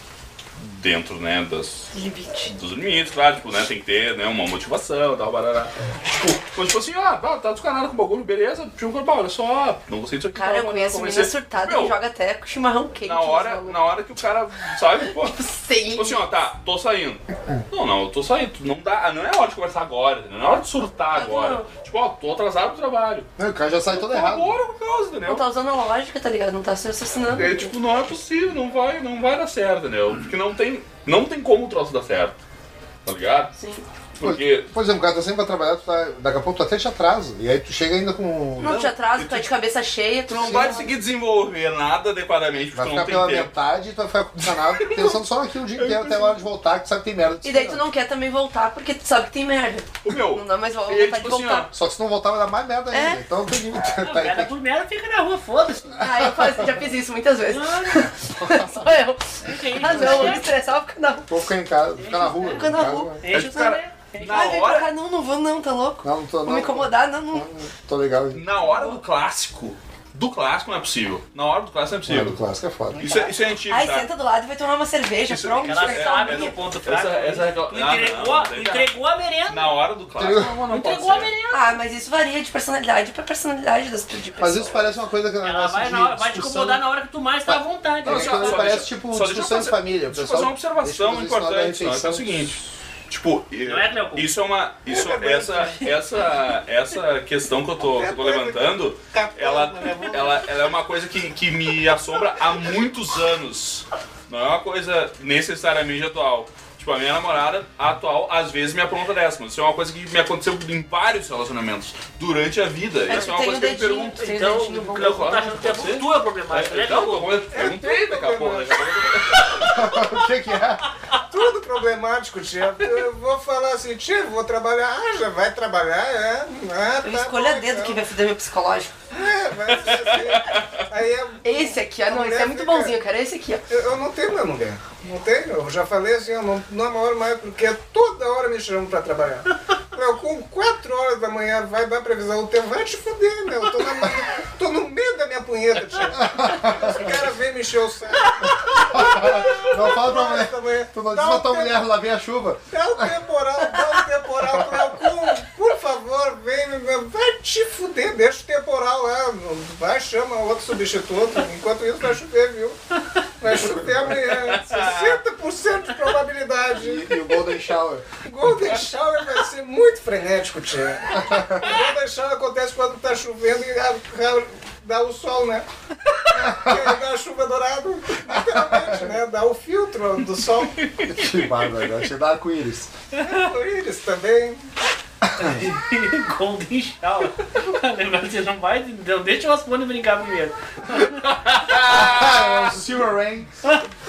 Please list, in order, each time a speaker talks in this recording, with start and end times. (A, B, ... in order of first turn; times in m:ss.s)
0:00.6-0:01.9 A
0:01.9-0:02.5 B
0:02.5-0:12.0 A
0:10.3-0:13.8 B
0:13.0-0:15.4 A
0:15.0-0:16.2 B
0:15.9-0:23.3 A
0:21.1-0:21.7 B
0:23.4-0:24.6 C
0:23.9-0:25.4 A
0:25.2-0:27.7 B
0:27.3-0:32.4 A
0:33.1-0:33.5 A
0:33.6-0:33.8 B
0:34.2-0:34.7 A
0:34.2-0:38.9 C
0:38.6-0:39.5 A
0:38.6-0:40.9 B
0:40.3-0:43.5 A
0:42.7-0:47.8 C
0:44.8-0:45.1 A
0:45.8-0:46.4 A
0:47.4-0:51.7 B
0:50.0-0:51.7 A
0:51.7-0:54.5 C
0:52.9-0:53.2 B
0:54.0-0:56.0 D
0:56.0-1:01.3 B
0:56.1-0:56.8 C
0:57.5-0:58.1 D
0:58.3-0:58.9 C
0:59.4-1:00.5 D
0:59.9-1:00.4 C
1:01.3-1:03.2 C
1:02.0-1:04.6 D
1:02.4-1:07.5 B
1:03.3-1:04.9 A
1:06.0-1:08.4 C
1:08.3-1:12.4 A
1:08.6-1:09.0 B
1:12.1-1:13.2 C
1:13.0-1:14.1 A
1:13.7-1:16.6 B
1:15.3-1:18.9 A
1:15.6-1:19.7 D
1:19.5-1:21.3 A
1:20.2-1:20.6 C
1:20.7-1:21.8 D
1:21.5-1:24.8 B
1:24.4-1:26.8 C
1:25.4-1:28.8 D
1:27.5-1:32.3 C
1:28.0-1:54.2 A
1:33.6-1:34.3 D
1:34.9-1:35.9 E
1:37.8-1:40.5 E
1:53.1-1:55.4 B
1:54.2-1:57.3 D
1:54.9-1:59.7 A
1:57.5-1:59.1 E
1:59.6-2:00.9 C
2:01.3-2:08.0 E
2:07.0-2:09.0 B
2:09.1-2:13.0 E
2:09.9-2:10.6 A
2:11.4-2:13.6 B
2:13.7-2:31.8 E
2:26.2-2:27.0 C
2:28.7-2:33.1 C
2:32.7-2:42.8 E
2:43.4-2:47.1 E
2:44.4-2:45.2 A
2:46.8-2:48.1 C
2:48.2-2:55.7 E
2:51.2-2:51.7 C
2:56.3-3:00.8 E
2:56.4-2:56.9 C
2:58.3-2:59.1 C
3:01.1-3:02.9 C
3:03.2-3:03.5 D
3:03.2-3:04.6 E
3:05.3-3:05.6 C
3:05.4-3:11.7 D
3:11.5-3:12.7 A
3:11.8-3:13.5 C